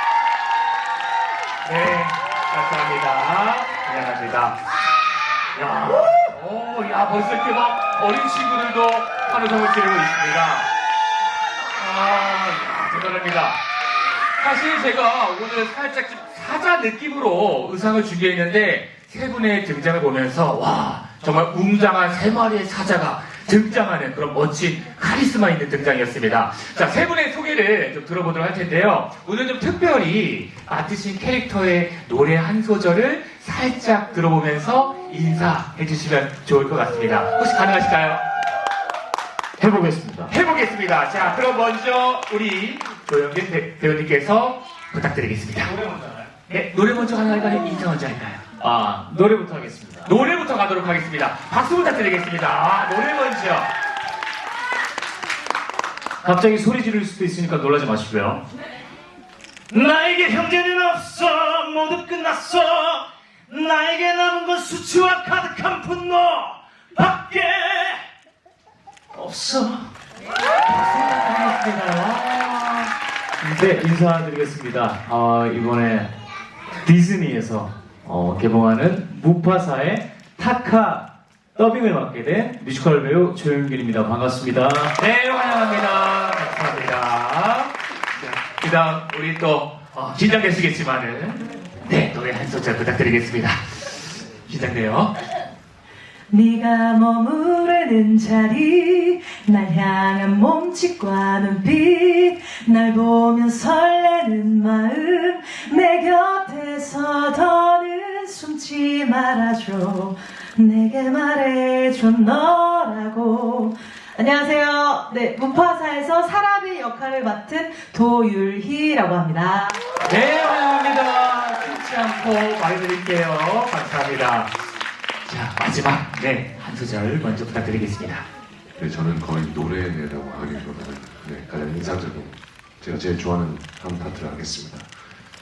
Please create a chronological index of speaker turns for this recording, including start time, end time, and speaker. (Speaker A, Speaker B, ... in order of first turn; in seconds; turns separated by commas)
Speaker A: 1.6-4.6, Speaker A: 5.5-10.7, Speaker A: 11.8-13.6, Speaker A: 14.4-38.2, Speaker B: 39.6-40.3, Speaker A: 40.3-45.7, Speaker B: 45.7-46.3, Speaker A: 46.5-48.4, Speaker B: 48.6-50.1, Speaker A: 50.0-53.7, Speaker B: 56.2-58.4, Speaker B: 59.7-68.0, Speaker B: 69.1-69.9, Speaker A: 70.7-72.9, Speaker B: 73.4-76.1, Speaker B: 76.8-84.9, Speaker A: 85.0-87.7, Speaker A: 88.2-93.6, Speaker A: 94.5-95.1, Speaker C: 96.3-119.8, Speaker A: 120.0-124.5, Speaker A: 125.3-128.2, Speaker D: 128.8-134.9